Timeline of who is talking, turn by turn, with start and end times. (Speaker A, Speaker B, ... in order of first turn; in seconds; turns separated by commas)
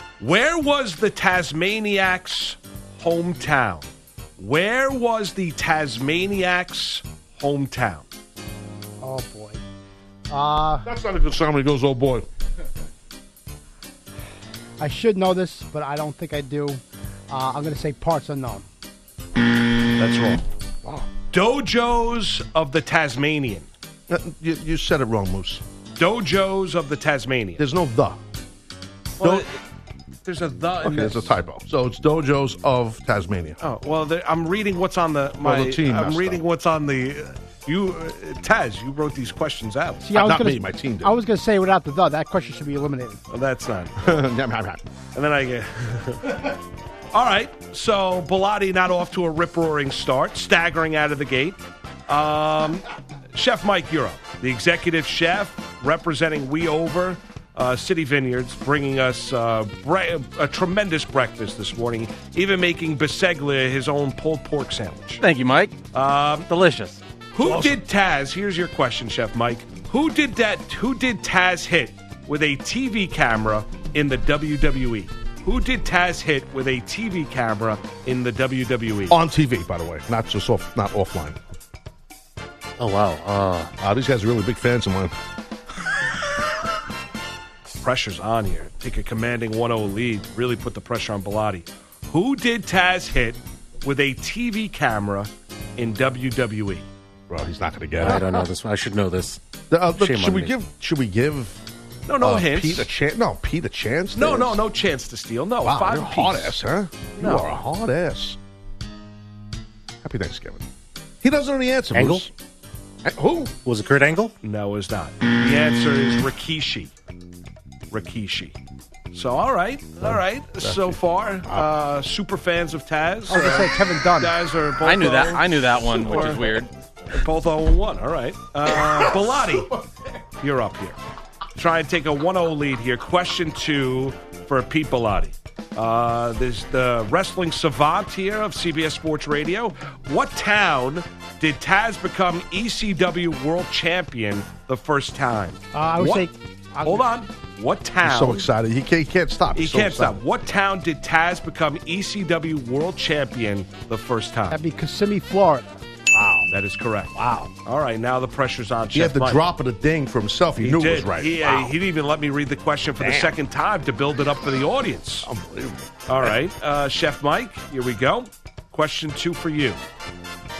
Speaker A: 0.2-3.9, Speaker A: 4.4-8.0, Speaker B: 9.0-9.6, Speaker B: 10.3-10.9, Speaker C: 10.8-12.2, Speaker B: 14.8-18.6, Speaker A: 20.0-20.4, Speaker C: 20.8-21.1, Speaker A: 21.3-23.7, Speaker C: 24.1-25.6, Speaker A: 26.0-27.6, Speaker C: 27.6-28.2, Speaker A: 29.2-29.6, Speaker C: 29.2-29.4, Speaker A: 30.2-31.3, Speaker C: 30.8-33.6, Speaker A: 33.6-40.1, Speaker C: 35.4-36.4, Speaker B: 40.0-43.2, Speaker C: 40.1-41.2, Speaker A: 43.3-44.2, Speaker C: 44.0-44.8, Speaker A: 45.1-46.5, Speaker A: 47.1-65.2, Speaker D: 65.2-65.8, Speaker A: 65.9-66.5, Speaker D: 66.5-67.0, Speaker A: 67.3-79.2, Speaker C: 67.4-67.8, Speaker C: 79.1-81.4, Speaker E: 82.8-83.7, Speaker C: 83.8-85.1, Speaker A: 87.8-96.8, Speaker C: 97.3-98.4, Speaker E: 98.0-99.4, Speaker C: 99.7-101.6, Speaker E: 100.0-100.5, Speaker A: 102.1-102.9, Speaker C: 102.2-104.6, Speaker A: 104.1-106.5, Speaker C: 105.6-108.4, Speaker A: 107.2-107.5, Speaker C: 110.0-110.6, Speaker C: 111.2-112.3, Speaker E: 111.9-112.2, Speaker C: 113.0-113.5, Speaker E: 113.6-114.3, Speaker A: 114.4-116.9, Speaker A: 117.9-118.5, Speaker A: 119.1-126.6, Speaker C: 120.0-121.7, Speaker B: 123.3-124.3, Speaker D: 124.8-126.7, Speaker A: 127.1-129.7, Speaker C: 128.7-129.7, Speaker A: 130.4-131.0, Speaker A: 131.6-146.3, Speaker B: 145.7-147.0, Speaker A: 146.8-148.5, Speaker C: 148.0-150.2, Speaker A: 149.5-154.6, Speaker B: 154.5-155.8, Speaker C: 156.1-156.5, Speaker A: 156.5-157.1, Speaker C: 157.1-157.5, Speaker A: 157.6-159.4, Speaker C: 158.9-161.7, Speaker A: 160.6-165.3, Speaker C: 163.0-163.3, Speaker C: 165.2-166.3, Speaker A: 166.1-169.8